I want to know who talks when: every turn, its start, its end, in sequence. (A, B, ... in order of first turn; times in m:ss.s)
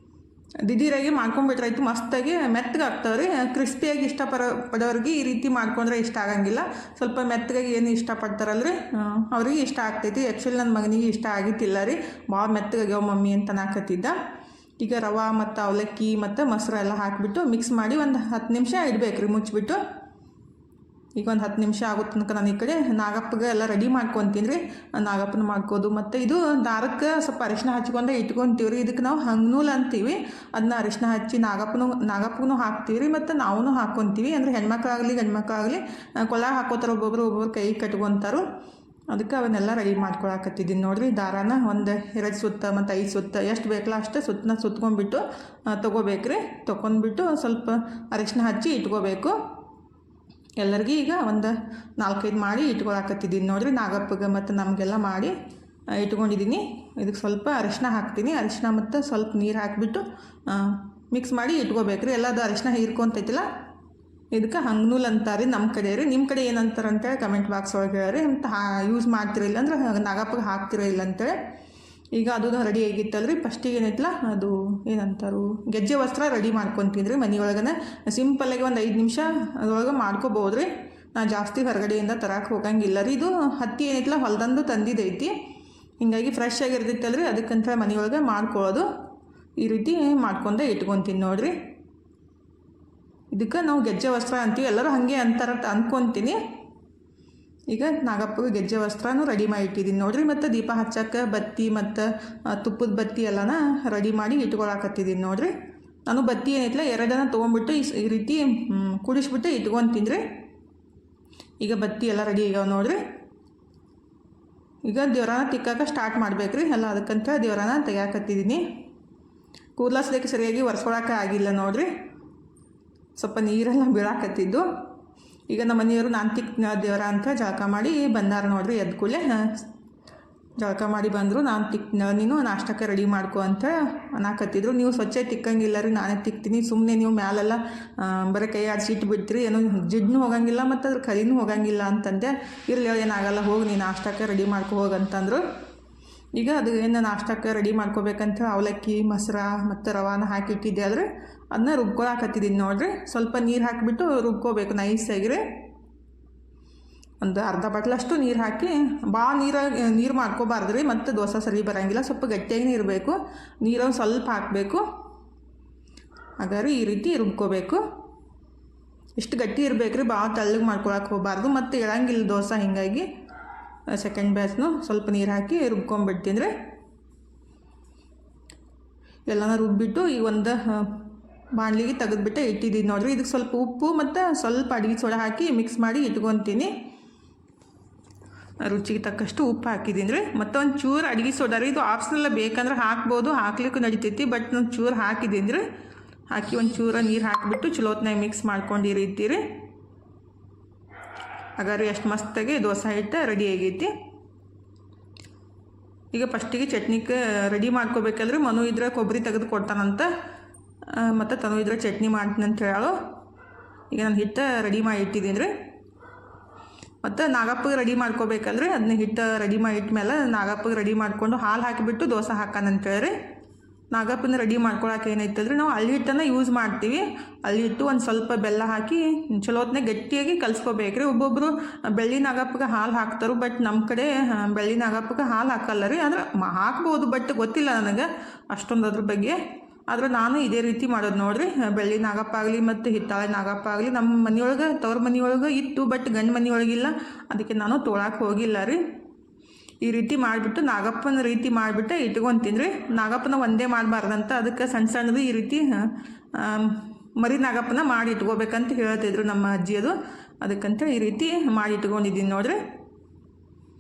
0:00.6-0:14.2 A
0:14.8-0:19.8 A
0:21.2-0:38.4 A
0:39.1-0:49.4 A
0:50.6-0:55.3 A
0:55.9-1:03.5 A
1:04.3-1:11.4 A
1:12.1-1:25.3 A
1:26.0-1:28.9 A
1:29.6-1:31.6 A
1:33.3-1:36.4 A
1:37.7-1:45.5 A
1:46.1-1:50.2 A
1:51.6-1:53.0 A
1:54.8-1:58.7 A
1:59.8-2:01.9 A
2:03.2-2:04.7 A
2:05.5-2:09.7 A
2:10.6-2:25.4 A
2:26.4-2:35.4 A
2:37.2-2:44.9 A
2:46.4-2:47.8 A
2:49.2-2:53.1 A
2:53.9-2:56.5 A
2:59.3-3:06.7 A
3:08.6-3:15.6 A
3:16.3-3:19.4 A
3:21.6-3:23.9 A
3:26.1-3:30.1 A
3:30.9-3:33.0 A
3:33.9-3:35.5 A
3:37.0-3:43.2 A
3:43.9-4:08.8 A
4:09.8-4:22.6 A